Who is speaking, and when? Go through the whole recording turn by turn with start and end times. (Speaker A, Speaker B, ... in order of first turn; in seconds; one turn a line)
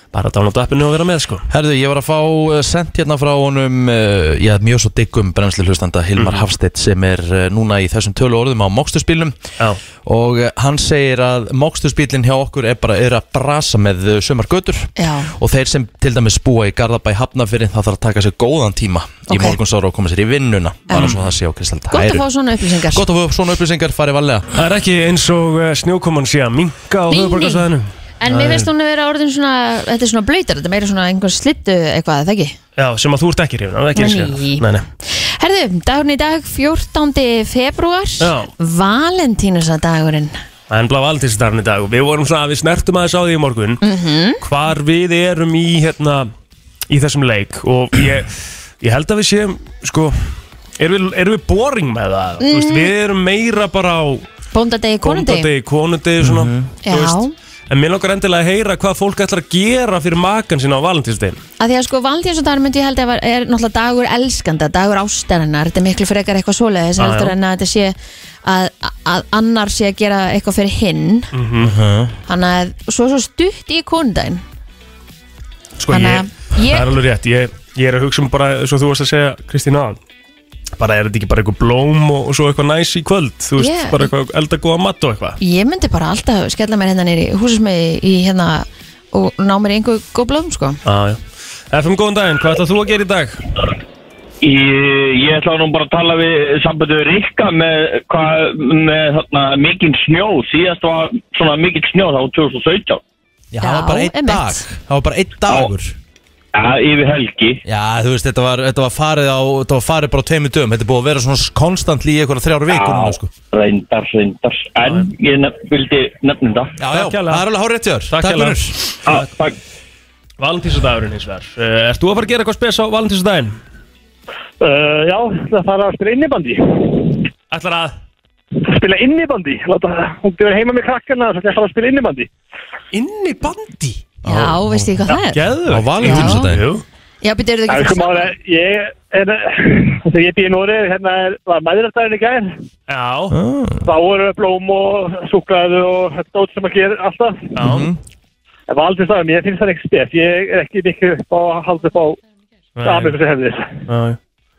Speaker A: 0.1-1.5
Speaker B: 1.5-9.4
Speaker A: 6.2-6.5
Speaker B: 10.1-24.4
Speaker C: 15.0-15.3
Speaker C: 19.3-19.6
Speaker A: 20.9-21.2
Speaker C: 21.9-23.0
Speaker A: 24.5-28.7
Speaker C: 27.1-27.6
Speaker C: 28.2-32.6
Speaker A: 32.8-34.9
Speaker C: 34.0-40.4
Speaker A: 38.2-38.5
Speaker A: 40.7-43.8
Speaker C: 43.8-44.4
Speaker A: 44.4-46.3
Speaker A: 46.9-50.2
Speaker A: 50.8-54.3
Speaker C: 52.4-52.9
Speaker C: 54.5-55.5
Speaker A: 55.0-61.4
Speaker B: 56.2-56.7
Speaker C: 56.9-57.3
Speaker C: 61.6-71.3
Speaker A: 67.0-67.3
Speaker A: 71.3-71.7
Speaker B: 71.6-72.2
Speaker C: 72.3-74.4
Speaker A: 75.8-80.0
Speaker C: 75.9-76.9
Speaker A: 80.8-85.4
Speaker C: 83.6-84.1
Speaker C: 85.4-90.8
Speaker A: 90.8-93.4
Speaker D: 94.4-103.0
Speaker B: 103.5-106.0
Speaker C: 103.6-104.7
Speaker D: 106.5-107.6
Speaker B: 107.7-113.3
Speaker D: 112.7-116.7
Speaker B: 116.8-118.8
Speaker A: 116.9-117.5
Speaker A: 118.1-119.3
Speaker D: 119.1-119.5
Speaker A: 120.4-123.6
Speaker E: 124.6-127.2
Speaker A: 127.5-128.0
Speaker E: 128.6-132.3
Speaker A: 132.9-134.1
Speaker B: 134.2-135.0
Speaker C: 134.2-135.4
Speaker A: 135.1-136.8
Speaker B: 135.6-136.7
Speaker C: 136.0-136.5
Speaker C: 137.2-138.3
Speaker E: 137.7-142.5
Speaker A: 142.9-143.4
Speaker B: 143.3-143.9
Speaker E: 143.8-147.5
Speaker A: 147.6-147.9
Speaker B: 147.6-148.0
Speaker E: 148.7-152.2
Speaker A: 152.8-153.2
Speaker E: 152.8-153.7
Speaker A: 153.9-154.2